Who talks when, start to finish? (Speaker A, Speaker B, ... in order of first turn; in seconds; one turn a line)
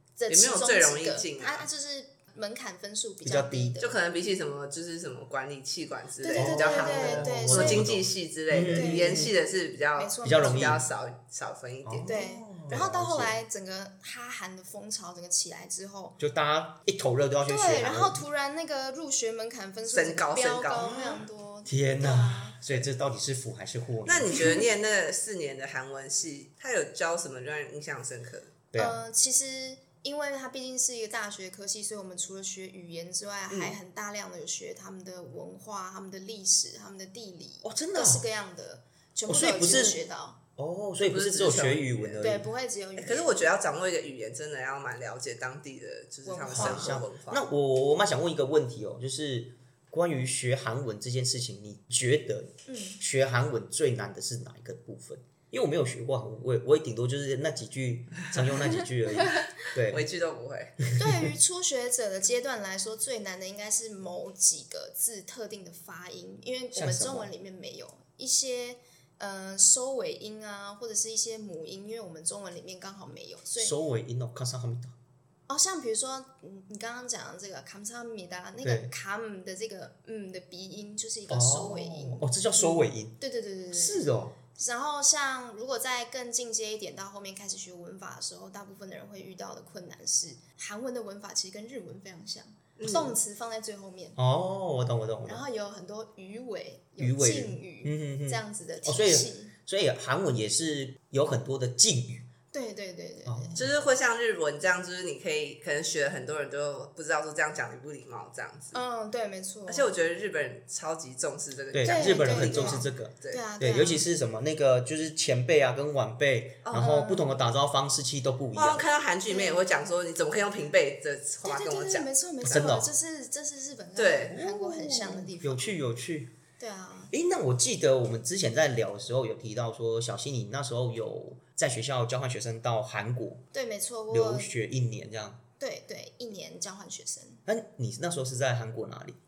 Speaker A: 0.2-3.9
Speaker B: 0.3-1.7
Speaker C: 3.2-3.8
Speaker B: 3.8-12.8
Speaker A: 6.2-7.9
Speaker C: 6.4-9.3
Speaker A: 8.7-9.3
Speaker A: 10.0-10.8
Speaker C: 10.2-10.8
Speaker C: 11.8-13.3
Speaker A: 12.1-16.2
Speaker C: 16.2-18.2
Speaker A: 17.4-22.8
Speaker B: 19.9-20.9
Speaker C: 20.7-24.6
Speaker B: 24.1-28.5
Speaker A: 28.8-40.4
Speaker C: 37.6-38.2
Speaker C: 39.3-40.0
Speaker C: 40.6-42.5
Speaker B: 41.0-42.2
Speaker A: 42.2-43.5
Speaker B: 43.0-47.4
Speaker A: 46.3-47.0
Speaker C: 46.5-60.0
Speaker A: 52.7-53.0
Speaker A: 59.2-59.5
Speaker B: 59.9-60.8
Speaker C: 60.9-61.3
Speaker A: 61.0-73.8
Speaker C: 66.7-67.3
Speaker C: 73.6-74.9
Speaker A: 75.5-94.2
Speaker C: 78.6-78.9
Speaker C: 81.3-83.2
Speaker C: 83.7-84.4
Speaker B: 92.8-93.2
Speaker C: 94.2-95.4
Speaker A: 95.3-99.5
Speaker C: 97.0-102.3
Speaker A: 102.5-103.6
Speaker C: 103.3-103.7
Speaker B: 103.5-108.8
Speaker A: 108.7-109.9
Speaker B: 109.7-113.4
Speaker C: 111.7-118.8
Speaker A: 111.8-114.1
Speaker B: 116.6-116.9
Speaker A: 116.7-117.3
Speaker B: 118.5-122.7
Speaker A: 119.3-119.6
Speaker A: 121.4-125.7
Speaker C: 122.4-122.9
Speaker B: 124.0-124.4
Speaker C: 124.3-126.3
Speaker A: 126.6-127.1
Speaker C: 127.1-133.4
Speaker A: 133.5-134.5
Speaker C: 134.1-135.4
Speaker A: 135.6-137.4
Speaker C: 137.5-139.2